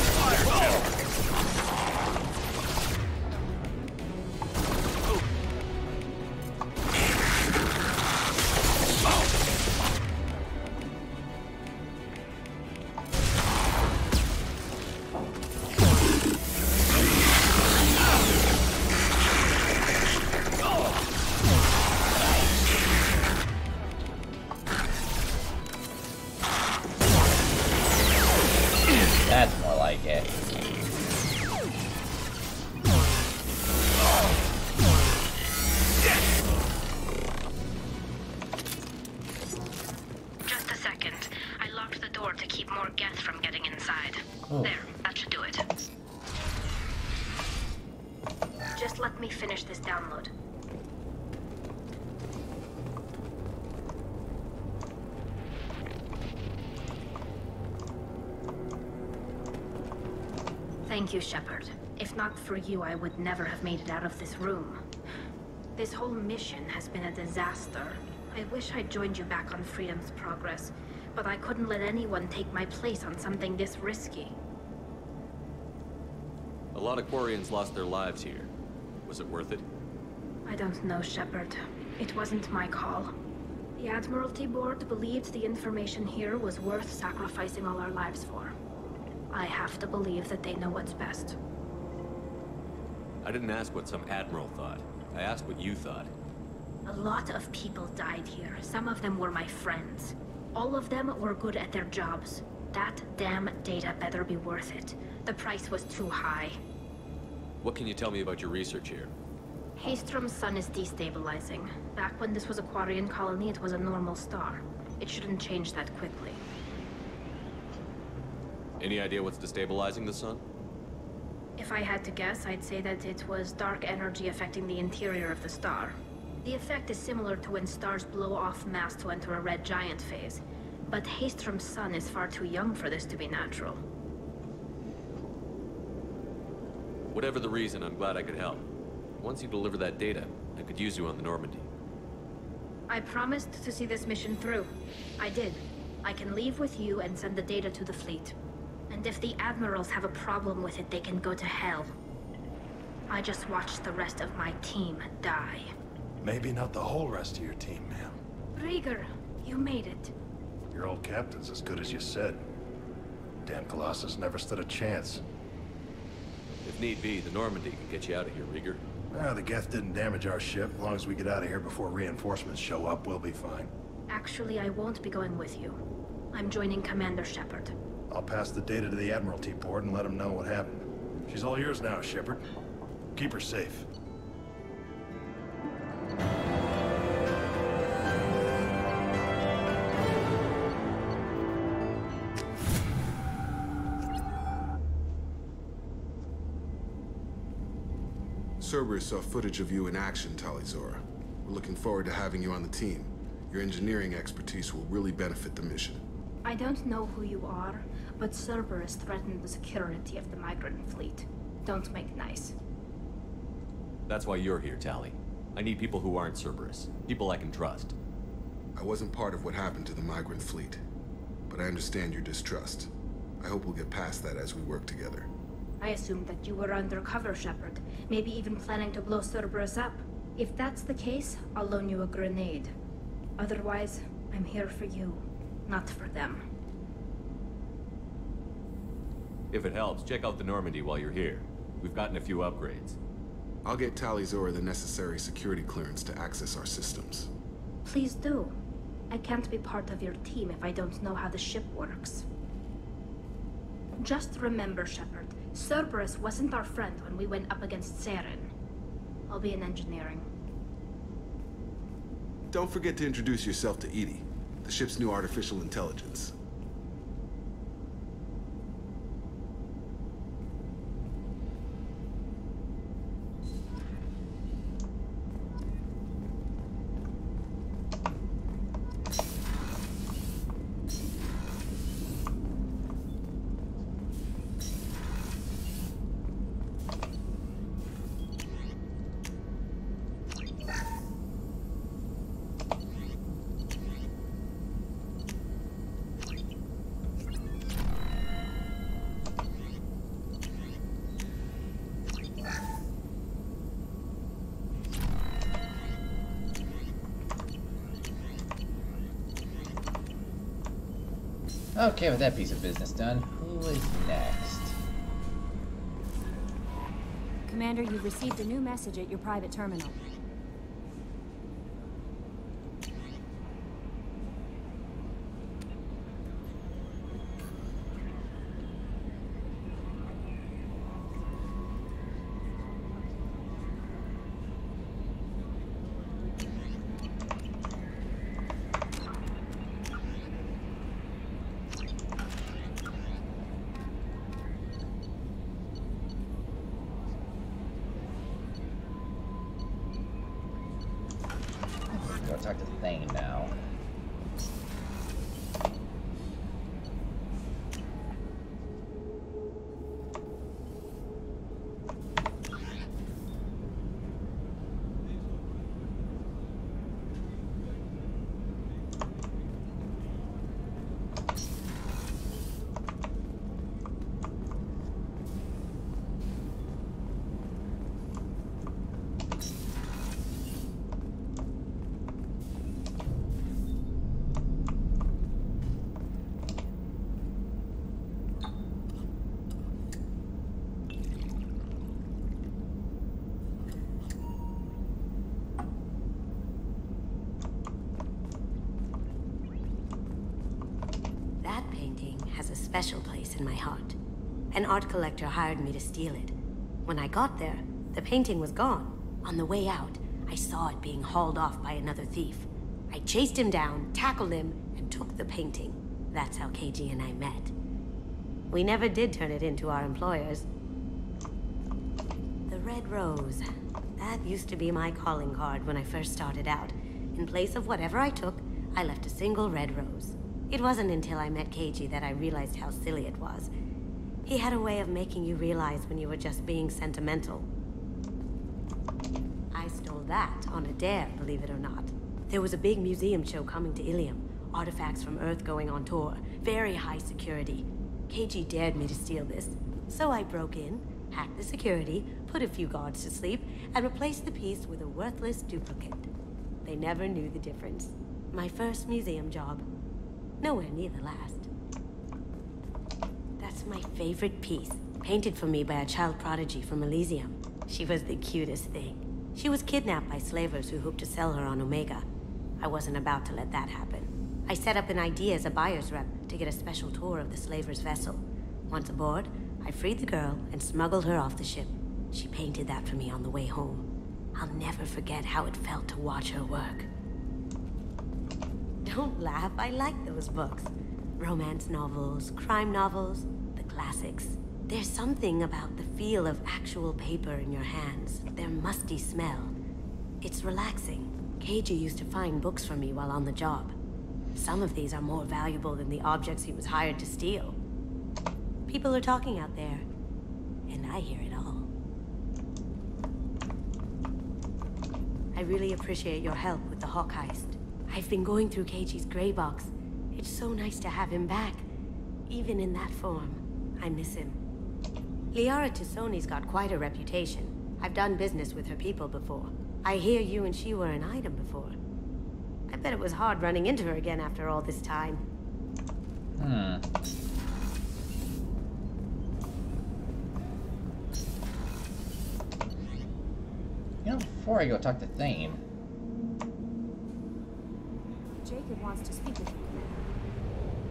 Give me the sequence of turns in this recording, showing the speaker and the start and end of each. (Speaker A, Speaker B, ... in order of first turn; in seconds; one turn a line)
Speaker A: 29.3-30.3
Speaker B: 40.5-45.6
Speaker B: 48.7-50.3
Speaker B: 60.9-64.8
Speaker B: 65.8-74.3
Speaker C: 76.7-78.5
Speaker C: 79.0-79.6
Speaker B: 80.5-83.1
Speaker B: 83.8-88.5
Speaker B: 89.3-91.3
Speaker C: 93.2-96.1
Speaker B: 96.8-106.5
Speaker C: 107.6-109.1
Speaker B: 109.8-116.4
Speaker C: 118.8-120.4
Speaker B: 121.6-133.8
Speaker C: 137.1-138.7
Speaker C: 139.2-141.7
Speaker B: 142.9-148.3
Speaker B: 148.9-151.9
Speaker B: 153.1-155.7
Speaker D: 156.2-158.2
Speaker B: 158.6-160.1
Speaker D: 160.7-162.4
Speaker D: 163.4-165.2
Speaker C: 166.6-168.8
Speaker D: 169.1-173.7
Speaker B: 174.1-175.8
Speaker B: 176.3-177.7
Speaker D: 178.1-182.4
Speaker D: 183.1-183.9
Speaker E: 198.6-206.0
Speaker B: 206.4-212.5
Speaker C: 214.1-217.9
Speaker E: 218.7-220.8
Speaker E: 221.5-225.3
Speaker B: 225.8-232.7
Speaker B: 233.4-236.4
Speaker C: 239.5-243.0
Speaker E: 243.6-247.3
Speaker B: 247.8-248.5
Speaker B: 249.1-252.2
Speaker B: 254.0-258.5
Speaker B: 259.3-260.3
Speaker E: 262.5-266.3
Speaker A: 311.8-314.8
Speaker F: 317.5-320.0
Speaker A: 351.9-353.5
Speaker G: 401.4-403.9
Speaker G: 404.5-406.3
Speaker G: 406.9-417.5
Speaker G: 418.5-420.4
Speaker G: 422.5-423.4
Speaker G: 424.0-433.5
Speaker G: 434.2-437.5
Speaker G: 439.5-456.1
Speaker G: 456.6-459.6
Speaker G: 460.4-461.5
Speaker G: 463.4-472.0
Speaker G: 472.6-486.9
Speaker G: 488.8-499.5
Speaker G: 500.2-503.7
Speaker G: 504.3-507.6
Speaker G: 508.7-509.9
Speaker G: 510.7-511.7
Speaker G: 515.3-521.6
Speaker G: 522.3-524.4
Speaker G: 525.3-531.8
Speaker G: 532.7-535.2
Speaker A: 536.4-536.9
Speaker A: 544.0-545.6
Speaker F: 548.4-550.0